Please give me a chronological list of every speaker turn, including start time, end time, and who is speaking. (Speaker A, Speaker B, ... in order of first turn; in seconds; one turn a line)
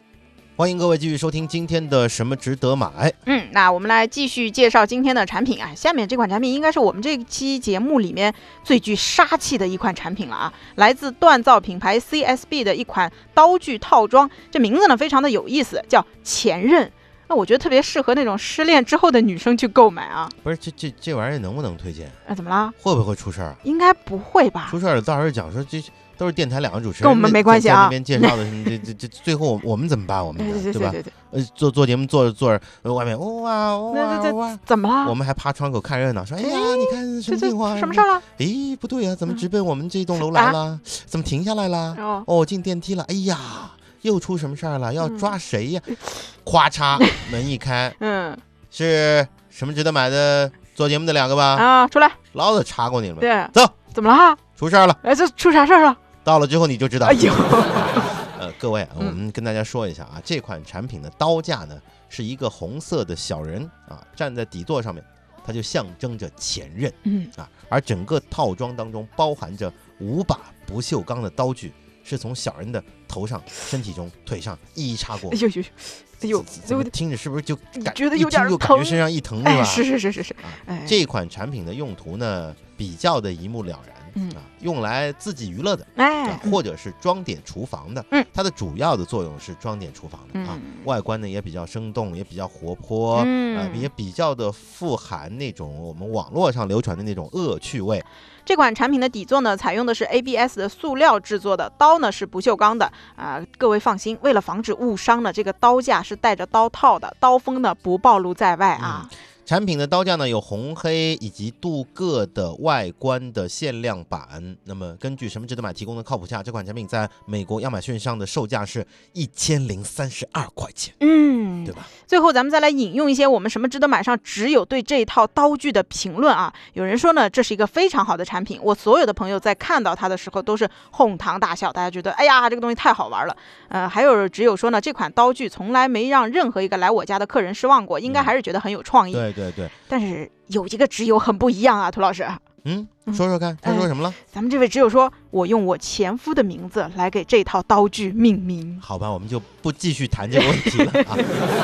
Speaker A: 0.6-3.2
Speaker B: 3.3-20.3
Speaker A: 20.4-22.2
Speaker B: 22.3-22.8
Speaker A: 22.8-23.6
Speaker B: 23.6-24.8
Speaker A: 24.7-48.0
Speaker B: 27.0-28.8
Speaker B: 30.4-31.1
Speaker B: 33.9-35.1
Speaker B: 36.4-38.2
Speaker B: 40.2-40.6
Speaker B: 42.0-42.3
Speaker B: 48.0-48.4
Speaker A: 48.7-51.7
Speaker B: 51.5-52.2
Speaker A: 52.3-53.8
Speaker B: 53.2-54.4
Speaker A: 54.6-55.0
Speaker B: 55.0-56.0
Speaker A: 56.2-75.4
Speaker B: 57.0-58.1
Speaker B: 67.0-67.3
Speaker B: 75.3-76.9
Speaker A: 76.3-79.9
Speaker B: 77.8-81.0
Speaker A: 80.4-98.1
Speaker B: 86.0-86.6
Speaker B: 90.3-90.8
Speaker B: 93.2-93.9
Speaker B: 98.5-109.1
Speaker A: 108.8-121.0
Speaker B: 121.0-139.3
Speaker A: 138.1-138.3
Speaker A: 139.1-139.8
Speaker B: 139.9-142.4
Speaker A: 142.6-144.2
Speaker B: 143.1-148.8
Speaker A: 148.8-151.2
Speaker B: 150.6-151.3